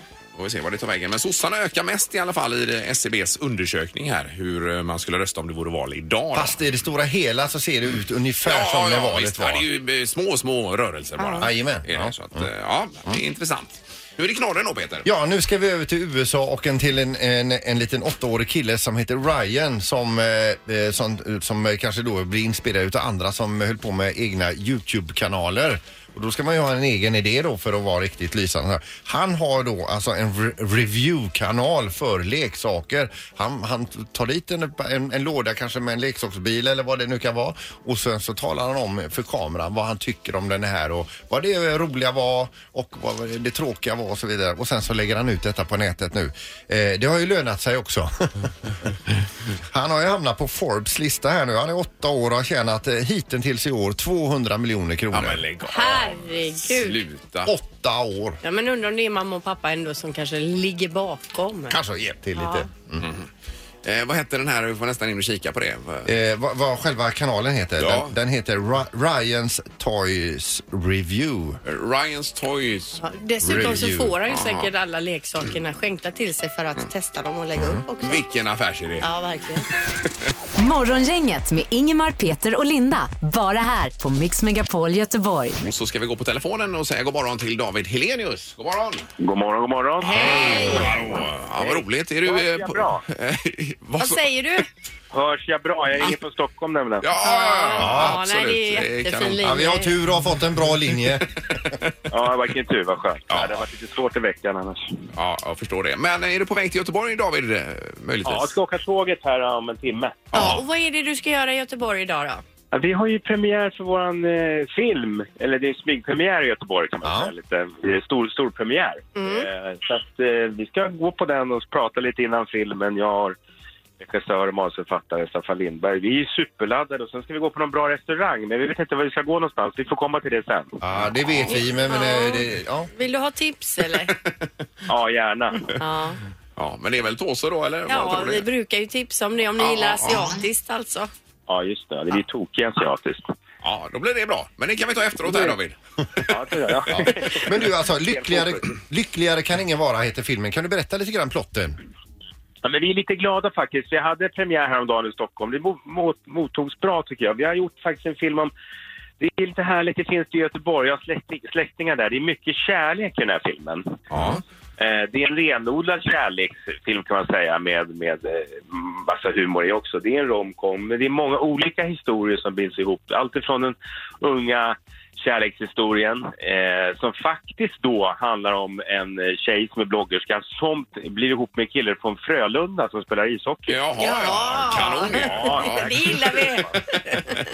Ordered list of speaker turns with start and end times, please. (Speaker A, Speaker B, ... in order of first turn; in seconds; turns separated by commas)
Speaker A: 0.3-6.6, Speaker B: 6.3-9.7, Speaker A: 8.4-15.1, Speaker C: 11.2-11.5, Speaker B: 11.4-12.5, Speaker B: 15.0-48.5, Speaker B: 49.7-55.4, Speaker A: 55.1-57.5, Speaker C: 55.7-57.0, Speaker B: 57.4-58.4, Speaker C: 58.4-61.8, Speaker B: 61.7-63.0, Speaker C: 62.3-62.7, Speaker A: 63.0-63.3, Speaker A: 63.8-66.1, Speaker B: 66.0-71.6, Speaker A: 67.8-68.1, Speaker A: 71.6-74.7, Speaker C: 73.0-78.2, Speaker B: 73.4-74.1, Speaker B: 77.5-77.8, Speaker A: 78.0-79.0, Speaker C: 79.0-79.7, Speaker D: 80.6-85.6, Speaker A: 85.6-89.0, Speaker E: 89.2-93.0, Speaker A: 90.0-94.2, Speaker C: 90.1-90.9, Speaker C: 94.0-94.7, Speaker E: 95.1-97.0, Speaker A: 97.0-99.6, Speaker C: 97.2-99.9, Speaker B: 97.8-98.2, Speaker B: 99.4-101.3, Speaker E: 102.1-104.8, Speaker A: 103.3-103.6, Speaker A: 105.1-108.5, Speaker E: 108.2-110.3, Speaker A: 110.3-110.6, Speaker C: 110.3-112.4, Speaker E: 112.7-123.3, Speaker B: 117.0-117.3, Speaker C: 119.2-119.5, Speaker E: 124.0-130.8, Speaker B: 130.8-132.9, Speaker C: 131.5-134.1, Speaker E: 134.9-135.7, Speaker C: 135.8-136.2, Speaker A: 136.6-138.4, Speaker C: 137.9-141.1, Speaker A: 139.6-140.3, Speaker E: 141.5-143.2, Speaker A: 143.6-147.2, Speaker E: 145.2-145.6, Speaker E: 146.3-148.7, Speaker B: 146.9-151.8, Speaker E: 152.6-158.5, Speaker E: 159.2-163.9, Speaker A: 164.1-164.4, Speaker E: 164.8-183.7, Speaker A: 183.7-186.1, Speaker C: 184.0-186.6, Speaker E: 185.2-186.7, Speaker A: 187.0-187.4